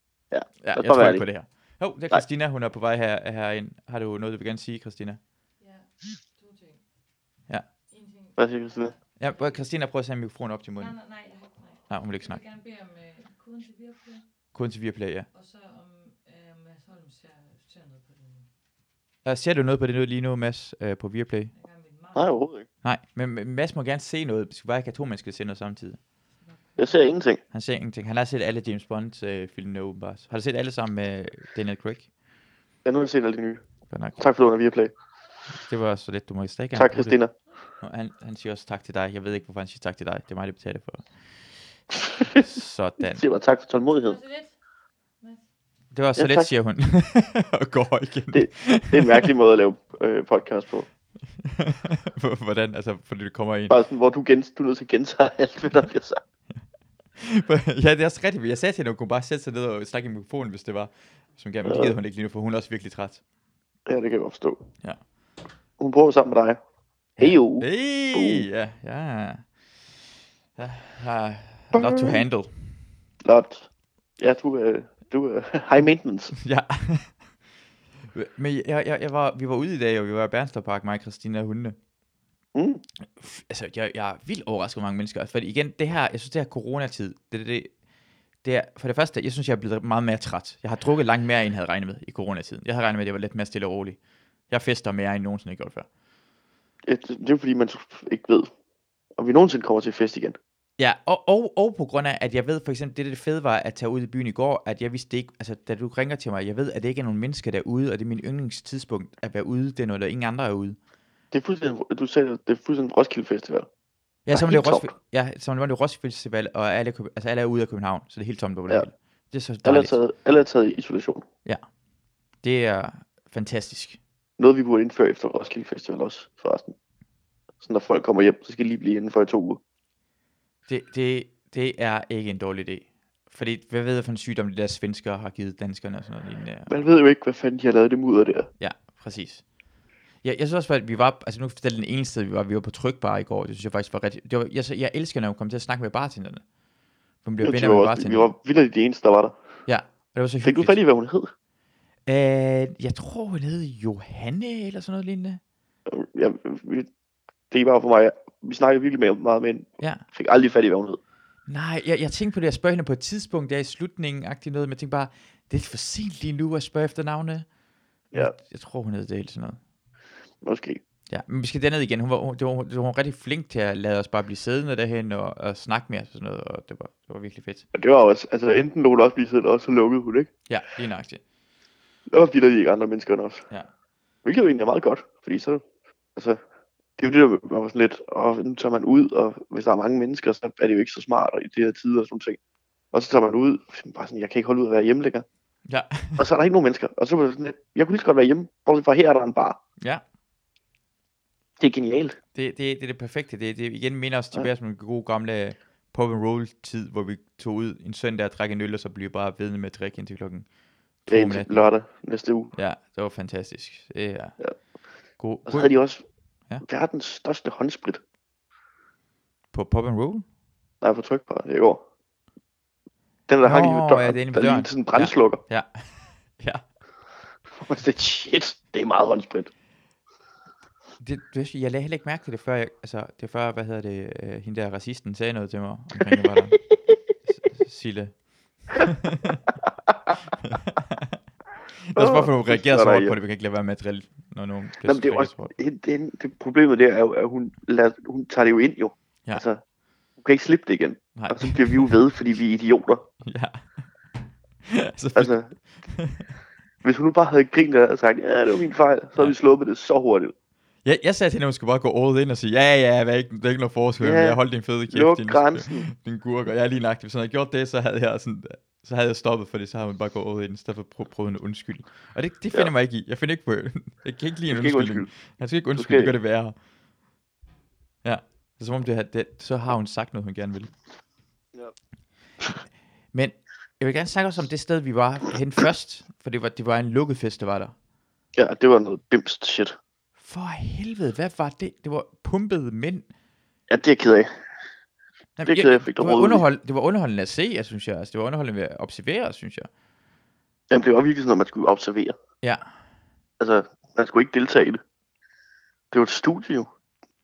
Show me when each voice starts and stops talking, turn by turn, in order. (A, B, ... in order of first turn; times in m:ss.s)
0:00.3-0:01.3 A
0:00.6-0:05.2 B
0:05.6-0:06.8 C
0:07.9-0:09.6 C
0:08.4-0:08.9 A
0:09.2-0:11.0 B
0:10.8-0:14.2 C
0:11.9-0:12.4 B
0:14.5-0:15.3 B
0:15.3-0:18.5 C
0:19.2-0:21.5 B
0:21.5-0:22.4 C
0:22.2-0:22.7 A
0:22.8-0:26.0 B
0:26.4-0:27.0 C
0:26.8-0:27.4 A
0:27.5-0:32.0 B
0:32.8-0:33.6 A
0:33.9-0:34.2 B
0:34.2-0:34.9 A
0:35.6-0:37.2 B
0:36.8-0:37.3 A
0:37.8-0:41.1 B
0:42.1-0:42.4 A
0:42.2-0:43.2 B
0:43.1-0:44.2 A
0:44.0-0:44.6 C
0:45.9-0:49.3 B
0:46.2-0:46.5 A
0:48.3-0:50.9 A
0:51.4-0:53.8 B
0:53.7-0:56.2 A
0:57.2-1:03.2 B
1:01.7-1:02.0 A
1:03.9-1:04.6 A
1:05.8-1:06.6 A
1:07.2-1:08.5 A
1:07.2-1:09.4 B
1:10.6-1:12.5 B
1:11.7-1:12.2 A
1:13.2-1:13.7 A
1:14.2-1:16.4 A
1:16.4-1:17.1 B
1:18.1-1:21.8 B
1:22.6-1:22.8 A
1:23.2-1:27.7 B
1:28.4-1:34.0 B
1:34.5-1:35.9 B
1:36.9-1:38.5 A
1:39.2-1:40.4 A
1:40.8-1:50.8 B
1:51.3-1:53.7 A
1:54.3-1:59.9 B
1:54.3-1:54.9 A
1:59.6-2:01.3 A
2:02.4-2:04.0 B
2:04.4-2:06.8 A
2:07.6-2:09.6 A
2:10.7-2:16.7 B
2:16.7-2:18.5 A
2:18.6-2:19.4 B
2:20.2-2:26.4 B
2:27.2-2:28.3 B
2:27.4-2:29.4 A
2:29.7-2:30.8 B
2:30.4-2:31.3 A
2:32.1-2:35.4 B
2:35.9-2:36.9 A
2:37.5-2:41.0 A
2:41.5-2:47.5 B
2:48.2-2:49.6 B
2:50.4-2:50.8 A
2:51.1-2:57.7 B
2:57.8-3:00.3 A
3:00.5-3:01.2 B
3:02.1-3:03.4 A
3:04.2-3:05.6 A
3:07.0-3:12.4 A
3:12.9-3:15.2 A
3:15.7-3:16.2 B
3:16.2-3:19.6 A
3:21.6-3:22.2 A
3:22.4-3:30.5 B
3:31.1-3:31.7 B
3:31.1-3:32.5 A
3:32.6-3:34.4 B
3:35.2-3:35.7 B
3:35.5-3:36.0 A
3:36.6-3:38.0 A
3:39.5-3:40.2 B
3:40.8-3:41.8 A
3:43.3-3:45.4 A
3:43.4-3:46.6 B
3:47.6-3:49.5 A
3:51.0-3:56.6 B
3:56.0-3:57.0 A
3:57.3-3:58.1 B
3:58.8-3:59.4 B
3:59.6-4:00.2 A
4:00.4-4:01.2 B
4:01.9-4:05.5 B
4:02.0-4:03.2 A
4:04.8-4:09.6 A
4:10.2-4:13.1 A
4:11.2-4:11.9 B
4:13.2-4:13.6 B
4:14.6-4:15.3 B
4:15.2-4:15.5 A
4:15.9-4:16.2 B
4:16.8-4:20.3 A
4:20.8-4:36.6 B
4:24.0-4:24.4 A
4:24.9-4:25.9 A
4:34.5-4:35.1 A
4:35.8-4:36.1 A
4:38.0-4:40.7 B
4:43.1-4:47.7 B
4:48.4-4:49.8 A
4:50.2-4:53.1 B
4:53.7-4:54.3 A
4:55.4-4:59.7 B
4:55.5-4:56.4 A
5:00.7-5:02.2 A
5:03.4-5:04.8 A
5:05.9-5:06.7 A